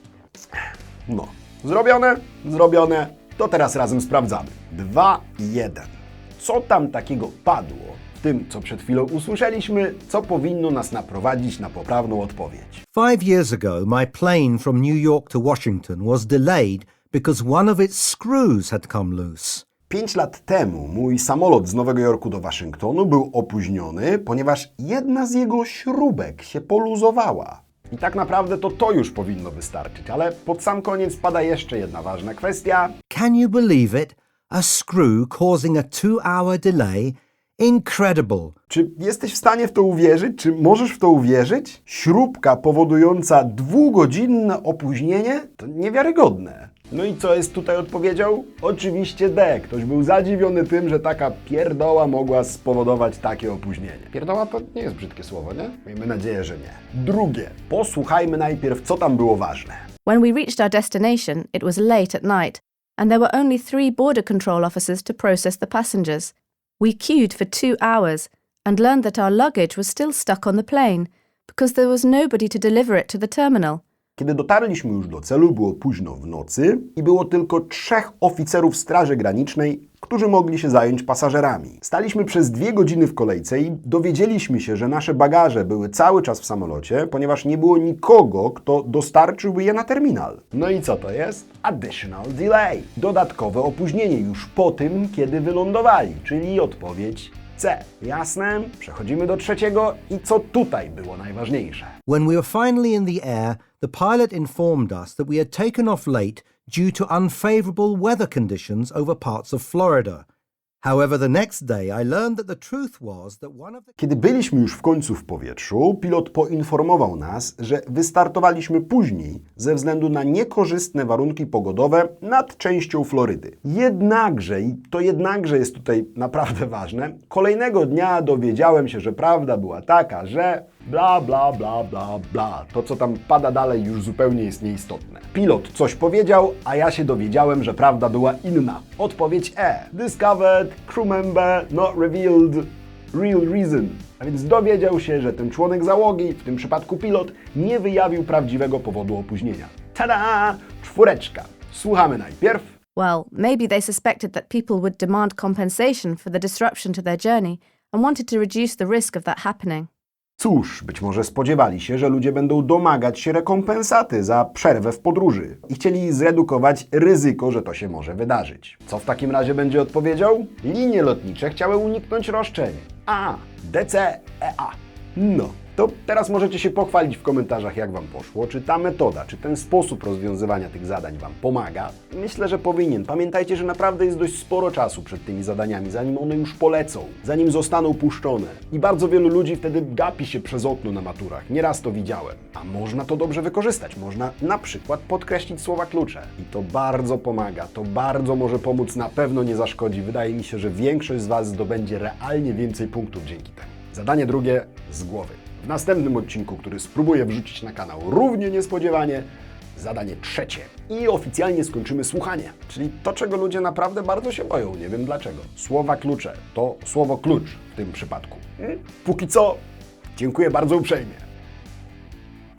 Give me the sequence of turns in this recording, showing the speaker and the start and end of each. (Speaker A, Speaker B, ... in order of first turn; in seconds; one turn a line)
Speaker A: 1.1-12.8
Speaker B: 12.9-19.7
Speaker A: 19.9-33.0
Speaker B: 33.1-38.5
Speaker A: 38.7-59.9
Speaker C: 60.1-73.8
Speaker A: 74.2-102.0
Speaker B: 102.1-110.2
Speaker B: 110.8-113.9
Speaker A: 114.0-152.7
Speaker C: 153.0-159.9
Speaker A: 160.4-219.6
Speaker A: 220.1-221.2